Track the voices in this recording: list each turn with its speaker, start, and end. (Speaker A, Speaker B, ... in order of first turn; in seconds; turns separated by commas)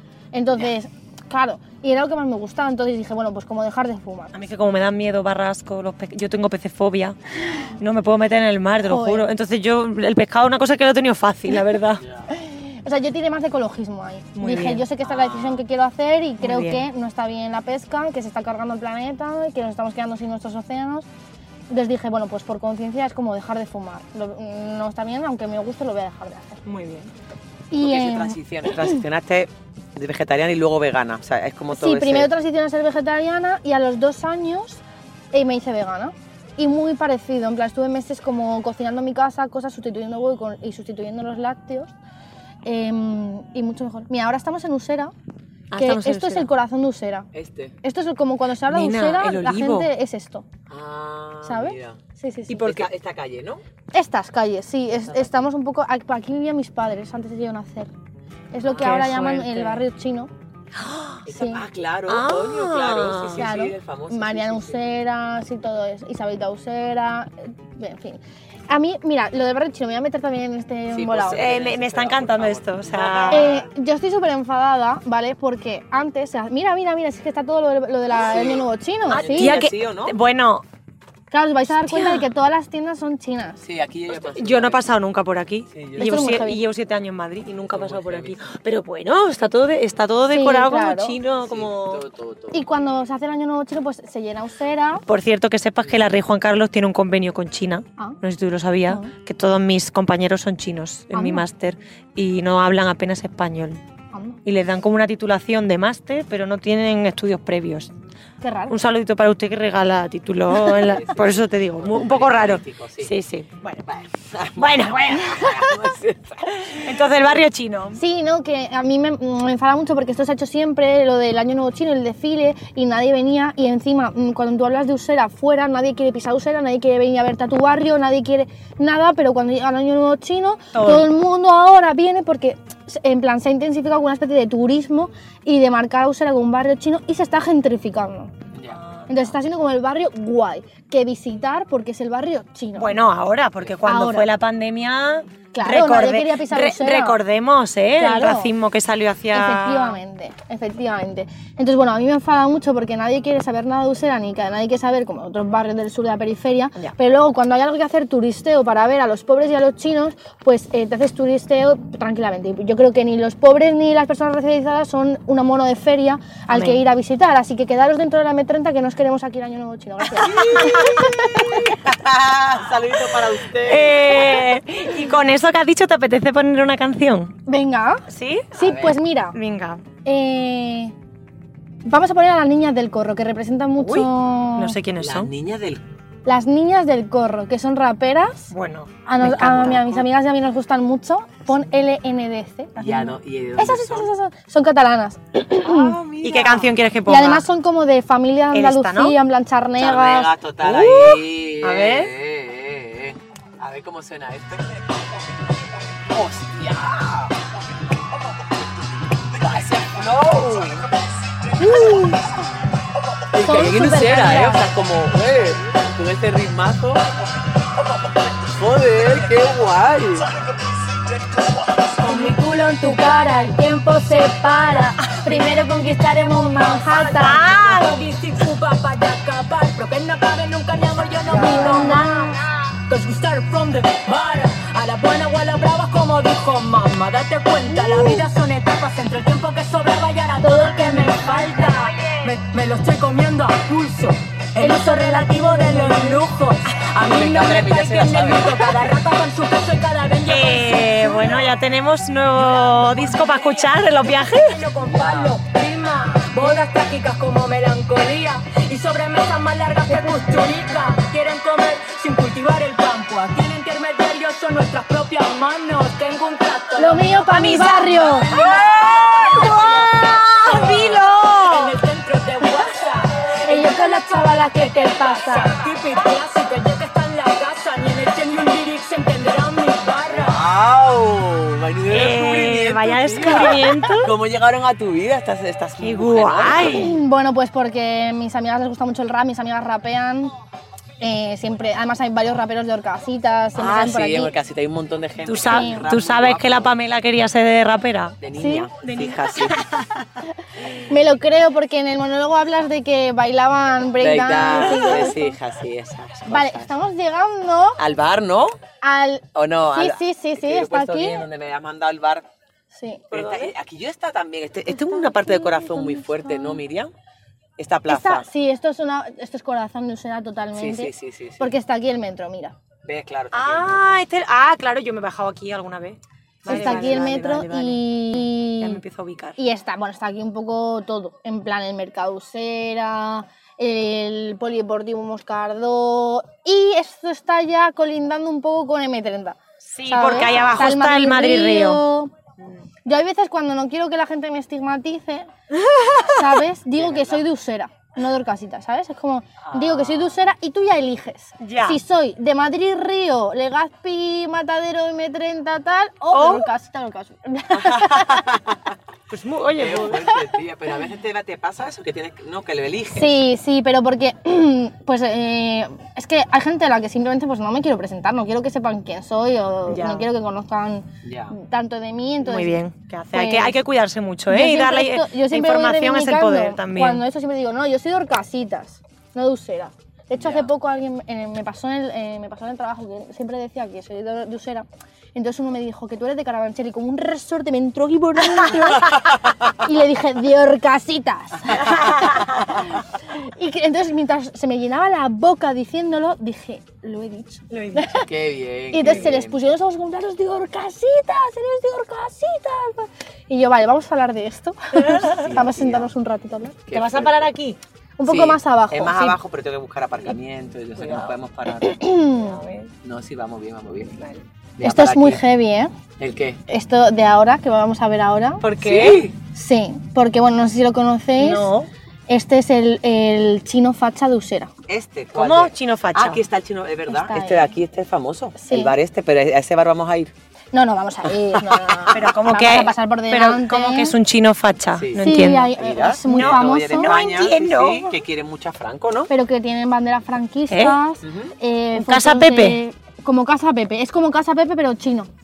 Speaker A: 0.3-4.3, Speaker B: 4.3-12.0, Speaker A: 8.9-9.2, Speaker A: 12.3-21.1, Speaker B: 14.3-14.9, Speaker C: 15.0-15.6, Speaker B: 16.4-16.8, Speaker A: 21.7-26.6, Speaker B: 26.6-27.1, Speaker A: 27.7-28.4, Speaker C: 27.8-32.3, Speaker A: 31.7-41.9, Speaker A: 42.6-45.1, Speaker B: 45.7-46.5, Speaker A: 45.7-47.3, Speaker C: 47.3-47.7, Speaker A: 47.8-50.5, Speaker B: 48.6-49.9, Speaker C: 50.7-53.6, Speaker A: 51.4-52.9, Speaker A: 53.9-57.9, Speaker C: 55.0-55.4, Speaker A: 58.5-60.3, Speaker C: 58.6-59.8, Speaker B: 58.8-59.3, Speaker B: 60.8-61.2, Speaker C: 61.2-64.8, Speaker A: 61.3-61.6, Speaker B: 62.1-63.4, Speaker A: 63.4-71.4, Speaker C: 70.9-73.7, Speaker B: 71.2-73.5, Speaker A: 73.3-79.6, Speaker C: 78.2-80.1, Speaker B: 79.1-80.6, Speaker A: 81.3-83.6, Speaker B: 81.8-82.3, Speaker C: 83.6-84.8, Speaker B: 84.1-92.0, Speaker C: 85.7-86.2, Speaker A: 86.0-86.6, Speaker C: 87.7-88.4, Speaker A: 90.3-91.2, Speaker C: 91.4-92.6, Speaker A: 92.5-95.0, Speaker B: 95.1-103.8, Speaker A: 101.1-101.4, Speaker A: 104.1-104.4, Speaker B: 104.4-107.9, Speaker A: 108.4-108.8, Speaker B: 108.7-113.8, Speaker C: 110.6-113.1, Speaker C: 113.8-116.9, Speaker B: 114.5-115.8, Speaker B: 116.8-118.0, Speaker A: 118.0-138.3, Speaker B: 130.7-131.1, Speaker C: 138.5-138.8, Speaker B: 138.7-139.3, Speaker A: 139.1-143.0, Speaker B: 142.7-150.0, Speaker A: 143.8-144.3, Speaker A: 145.5-147.2, Speaker A: 147.9-148.5, Speaker A: 149.3-171.8, Speaker B: 166.5-166.8, Speaker C: 170.2-174.4, Speaker B: 170.3-171.1, Speaker B: 173.5-177.3, Speaker A: 177.5-179.3, Speaker B: 178.1-178.6, Speaker C: 178.6-179.0, Speaker B: 179.3-179.8, Speaker A: 180.0-180.9, Speaker A: 181.8-184.8, Speaker B: 183.8-185.3, Speaker C: 185.0-185.8, Speaker A: 186.2-188.5, Speaker B: 188.5-189.8, Speaker A: 189.0-196.0, Speaker C: 189.2-190.0, Speaker C: 192.8-194.1, Speaker C: 195.6-196.7, Speaker B: 196.2-197.5, Speaker A: 197.1-200.3, Speaker B: 198.5-199.2, Speaker C: 199.8-204.9, Speaker B: 200.6-202.1, Speaker C: 206.0-207.4, Speaker C: 209.2-211.1, Speaker A: 211.6-212.2, Speaker C: 211.6-212.2, Speaker C: 213.3-217.0, Speaker A: 213.4-214.6, Speaker C: 218.4-220.3, Speaker D: 222.0-223.2, Speaker E: 222.1-224.9, Speaker D: 224.9-251.5, Speaker A: 226.7-227.3, Speaker B: 227.1-227.9, Speaker B: 231.3-232.0, Speaker A: 231.3-232.3, Speaker A: 237.7-238.2, Speaker A: 240.4-241.7, Speaker B: 241.9-242.2, Speaker A: 244.6-246.2, Speaker C: 247.0-248.9, Speaker B: 250.2-254.7, Speaker D: 252.4-280.4, Speaker C: 254.8-255.4, Speaker A: 259.9-260.5, Speaker A: 266.8-268.3, Speaker B: 267.4-271.8, Speaker A: 273.4-275.6, Speaker E: 273.6-275.5, Speaker C: 280.1-286.9, Speaker B: 281.9-284.1, Speaker B: 285.8-286.9, Speaker A: 286.6-290.3, Speaker A: 291.0-294.3, Speaker C: 293.5-296.7, Speaker B: 295.2-298.2, Speaker A: 295.5-295.8, Speaker C: 298.2-299.6, Speaker A: 298.4-298.7, Speaker B: 298.8-300.2, Speaker A: 300.6-305.4, Speaker C: 304.0-306.7, Speaker B: 304.6-305.1, Speaker A: 306.3-307.8, Speaker C: 307.8-308.6, Speaker A: 308.8-311.2, Speaker C: 309.3-312.2, Speaker A: 312.7-313.0, Speaker B: 313.1-313.5, Speaker C: 313.1-316.9, Speaker A: 314.7-316.6, Speaker C: 317.6-318.3, Speaker A: 317.9-322.6, Speaker C: 320.5-321.5, Speaker C: 322.8-323.9, Speaker B: 323.3-329.4, Speaker C: 326.4-327.2, Speaker A: 326.4-328.8, Speaker A: 329.4-342.1, Speaker B: 339.6-341.8, Speaker C: 340.1-340.6, Speaker A: 342.8-345.3, Speaker B: 345.6-346.2, Speaker A: 346.0-358.3, Speaker C: 346.8-347.2, Speaker C: 349.5-350.2, Speaker B: 351.4-351.8, Speaker B: 356.1-356.5, Speaker C: 357.5-358.7, Speaker B: 359.1-360.2, Speaker C: 359.6-363.1, Speaker A: 362.9-372.6, Speaker B: 369.7-370.1, Speaker C: 371.0-371.3, Speaker B: 372.2-377.0, Speaker A: 373.1-373.6, Speaker A: 374.3-398.1, Speaker C: 380.1-380.5, Speaker B: 397.5-397.9, Speaker C: 398.0-399.4, Speaker A: 398.7-406.6, Speaker C: 405.0-405.9, Speaker C: 406.7-407.3, Speaker B: 406.7-407.6, Speaker A: 408.0-409.1, Speaker C: 408.1-411.8, Speaker B: 410.8-411.1, Speaker A: 411.6-412.4, Speaker B: 412.1-412.7, Speaker C: 412.8-414.0, Speaker B: 414.0-414.2, Speaker C: 414.6-415.2, Speaker A: 414.6-415.7, Speaker C: 416.0-416.4, Speaker A: 416.5-418.4, Speaker B: 418.4-419.1, Speaker C: 418.6-419.1, Speaker A: 419.3-421.5, Speaker B: 421.2-421.7, Speaker A: 422.1-424.5, Speaker C: 424.7-430.1, Speaker B: 425.1-426.2, Speaker A: 426.9-427.5, Speaker A: 428.4-428.7, Speaker A: 430.5-433.9, Speaker B: 431.9-435.5, Speaker C: 434.8-439.1, Speaker A: 435.0-436.9, Speaker B: 436.1-438.0, Speaker A: 439.1-445.1, Speaker B: 440.5-440.8, Speaker C: 441.0-441.3, Speaker B: 441.7-442.6